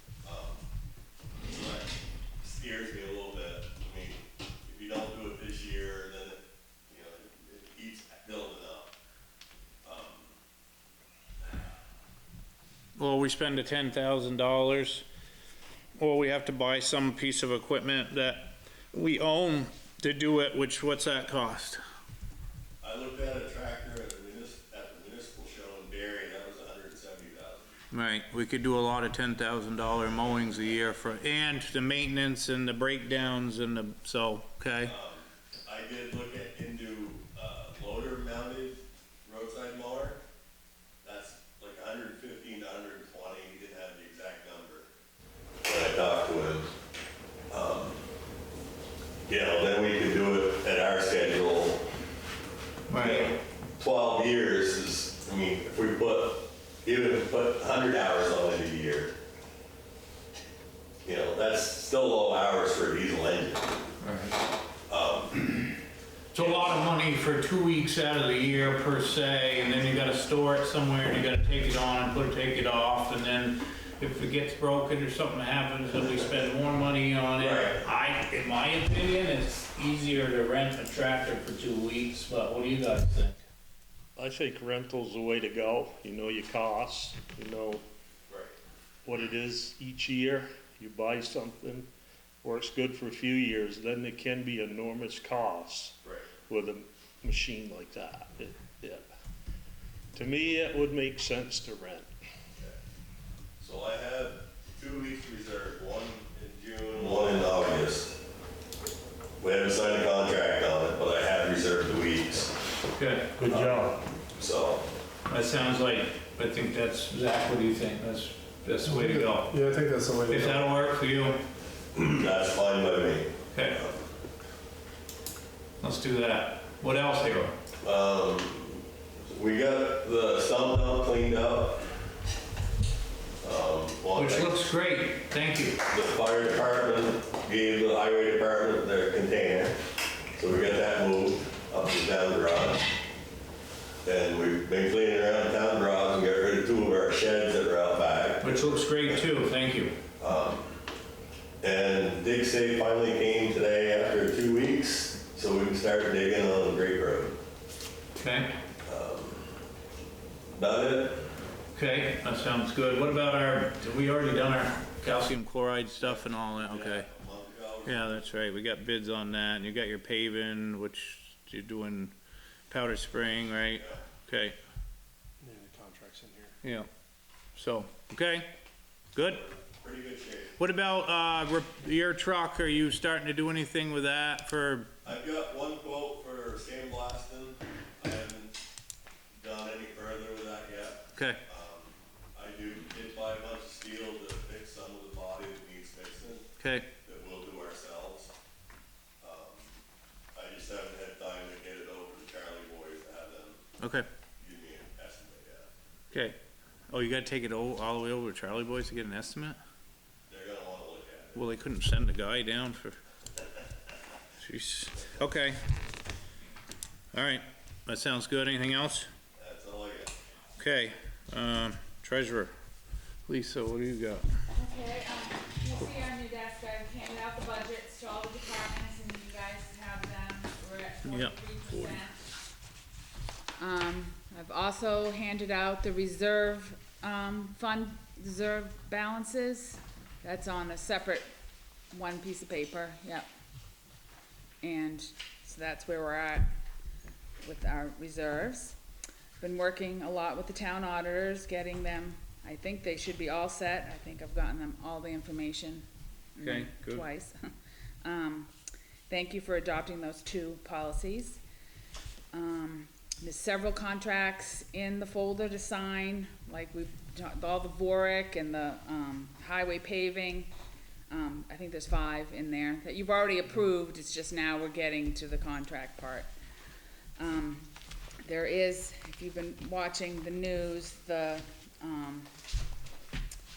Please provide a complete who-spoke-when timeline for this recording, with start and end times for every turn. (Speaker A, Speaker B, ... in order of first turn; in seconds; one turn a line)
Speaker A: 0.2-0.7
Speaker A: 1.4-8.9
Speaker A: 9.8-10.3
Speaker B: 13.0-15.1
Speaker B: 16.0-21.8
Speaker A: 22.8-27.8
Speaker B: 27.9-34.9
Speaker A: 34.8-40.2
Speaker A: 41.0-44.9
Speaker A: 45.6-46.7
Speaker A: 47.5-48.0
Speaker A: 49.3-51.8
Speaker B: 52.9-53.3
Speaker A: 53.0-59.1
Speaker A: 61.0-63.9
Speaker B: 64.0-64.4
Speaker A: 64.9-65.8
Speaker B: 66.3-83.4
Speaker A: 66.4-66.7
Speaker A: 77.4-77.8
Speaker C: 84.2-87.8
Speaker A: 88.3-88.5
Speaker C: 89.0-91.9
Speaker C: 92.4-99.0
Speaker A: 96.0-96.3
Speaker C: 100.1-102.1
Speaker A: 103.6-108.2
Speaker A: 109.4-112.5
Speaker B: 112.9-113.4
Speaker C: 113.4-114.0
Speaker A: 113.4-114.9
Speaker B: 115.3-119.5
Speaker D: 118.9-120.5
Speaker B: 120.3-121.4
Speaker A: 121.9-124.1
Speaker B: 123.5-123.8
Speaker B: 125.8-127.5
Speaker A: 127.8-131.9
Speaker A: 133.4-134.6
Speaker B: 134.2-135.8
Speaker A: 135.8-139.8
Speaker A: 140.4-142.8
Speaker A: 144.0-149.3
Speaker B: 148.4-150.0
Speaker A: 150.2-150.8
Speaker A: 151.6-157.4
Speaker B: 158.2-158.5
Speaker A: 158.8-159.5
Speaker A: 160.5-161.2
Speaker B: 161.8-167.1
Speaker A: 166.0-168.3
Speaker B: 167.9-172.1
Speaker B: 172.7-174.6
Speaker A: 173.8-174.0
Speaker D: 175.4-176.6
Speaker B: 176.6-176.9
Speaker B: 177.6-178.5
Speaker B: 179.1-179.4
Speaker A: 179.2-180.6
Speaker B: 180.6-184.9
Speaker A: 185.0-188.5
Speaker A: 189.4-196.5
Speaker B: 191.1-191.4
Speaker B: 196.6-196.9
Speaker A: 197.0-198.3
Speaker A: 199.2-199.8
Speaker A: 200.3-203.6
Speaker B: 203.8-204.1
Speaker A: 204.4-205.7
Speaker B: 206.1-206.4
Speaker B: 206.9-209.6
Speaker A: 210.3-211.4
Speaker B: 211.3-213.0
Speaker B: 214.4-215.6
Speaker B: 217.1-219.1
Speaker A: 219.4-220.1
Speaker B: 220.6-222.5
Speaker B: 223.3-224.2
Speaker E: 224.5-232.2
Speaker B: 231.1-232.0
Speaker E: 233.6-241.3
Speaker E: 241.9-243.3
Speaker E: 244.6-246.5
Speaker E: 247.4-248.8
Speaker E: 249.4-257.4
Speaker B: 256.4-257.0
Speaker E: 258.0-258.5
Speaker E: 259.1-261.4
Speaker E: 262.3-270.5
Speaker E: 271.1-276.3
Speaker E: 277.2-277.7
Speaker E: 278.2-282.3